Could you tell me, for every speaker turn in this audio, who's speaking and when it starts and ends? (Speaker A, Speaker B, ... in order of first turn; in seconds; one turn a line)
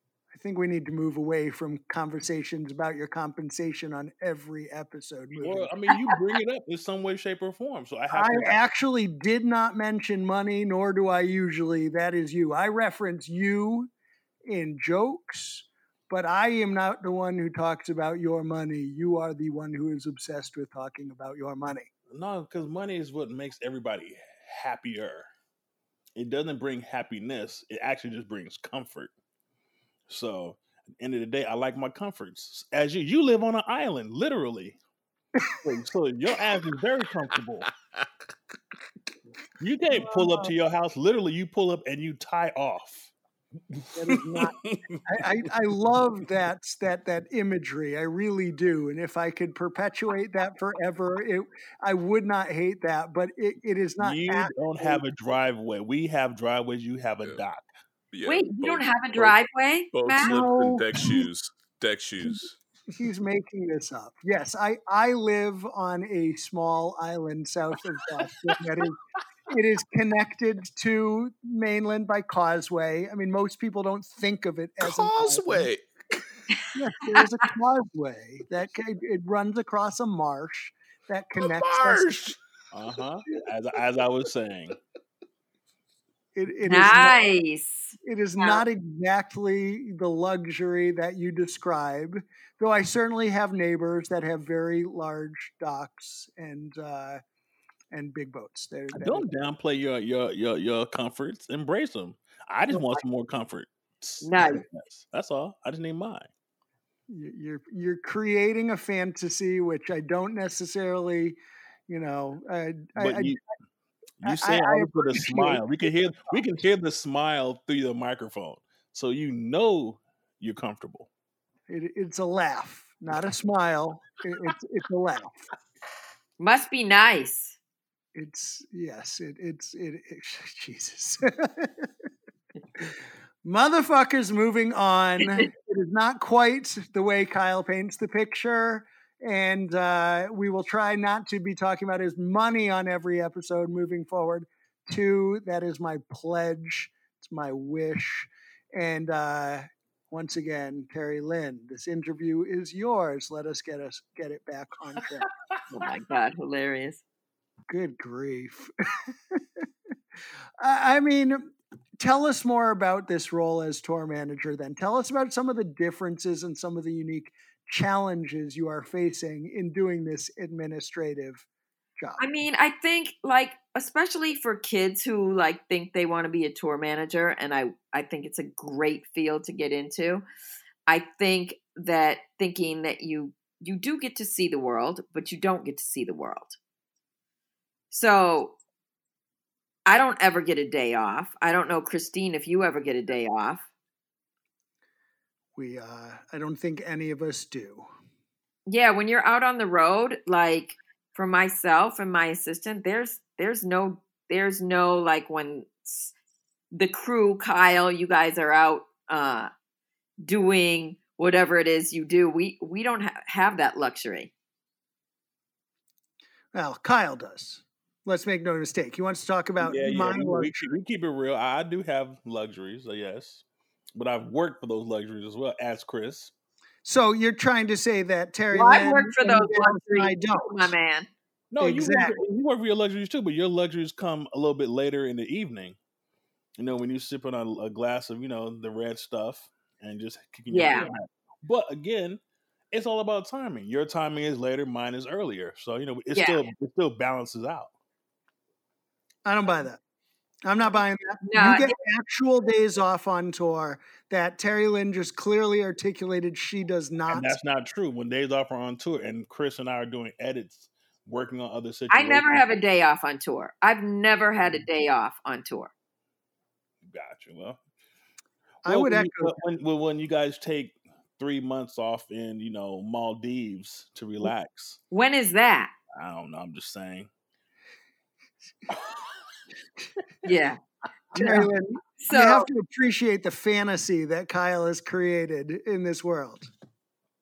Speaker A: 0.3-5.7
Speaker B: 5.4-8.6
Speaker A: 8.1-13.9
Speaker A: 14.5-21.9
Speaker B: 22.1-25.3
Speaker B: 26.1-29.1
Speaker B: 30.1-34.8
Speaker B: 35.6-37.7
Speaker B: 39.6-43.1
Speaker A: 40.0-40.5
Speaker A: 43.9-55.0
Speaker C: 44.2-45.0
Speaker B: 54.0-57.7
Speaker C: 58.1-59.4
Speaker D: 58.2-60.4
Speaker C: 59.9-62.5
Speaker A: 60.2-61.2
Speaker A: 62.9-69.0
Speaker A: 69.5-75.7
Speaker C: 74.8-76.2
Speaker D: 76.5-77.4
Speaker A: 76.7-82.2
Speaker C: 81.4-82.4
Speaker B: 82.7-84.8
Speaker A: 86.3-87.2
Speaker D: 86.6-88.6
Speaker A: 88.0-97.2
Speaker A: 97.9-99.3
Speaker B: 98.9-106.3
Speaker D: 102.7-103.0
Speaker D: 104.2-104.6
Speaker A: 107.1-113.4
Speaker B: 113.0-113.4
Speaker B: 114.2-121.1
Speaker A: 114.2-116.3
Speaker A: 121.7-125.5
Speaker D: 126.4-127.6
Speaker A: 128.1-131.9
Speaker A: 133.4-155.3
Speaker D: 155.7-157.0
Speaker A: 157.7-159.7
Speaker A: 160.6-171.4
Speaker A: 172.0-172.2
Speaker D: 172.2-180.2
Speaker D: 180.9-186.6
Speaker D: 187.9-188.6
Speaker D: 189.9-193.7
Speaker A: 195.6-197.9
Speaker D: 198.7-206.1
Speaker D: 206.7-209.5
Speaker D: 210.2-214.3
Speaker A: 216.5-220.8
Speaker B: 219.6-226.3
Speaker A: 226.8-230.7
Speaker D: 228.5-231.1
Speaker B: 231.5-235.8
Speaker A: 231.6-232.2
Speaker B: 236.6-242.2
Speaker D: 240.5-240.9
Speaker B: 242.7-247.7
Speaker D: 246.1-246.5
Speaker A: 249.2-249.8
Speaker A: 250.4-257.3
Speaker D: 251.2-251.7
Speaker B: 257.1-262.6
Speaker D: 261.9-265.7
Speaker B: 266.8-267.6
Speaker A: 268.6-269.4
Speaker B: 268.6-274.8
Speaker D: 274.9-275.7
Speaker B: 275.9-277.1
Speaker D: 280.2-280.6
Speaker A: 281.1-286.5
Speaker D: 281.1-281.5
Speaker D: 282.0-282.5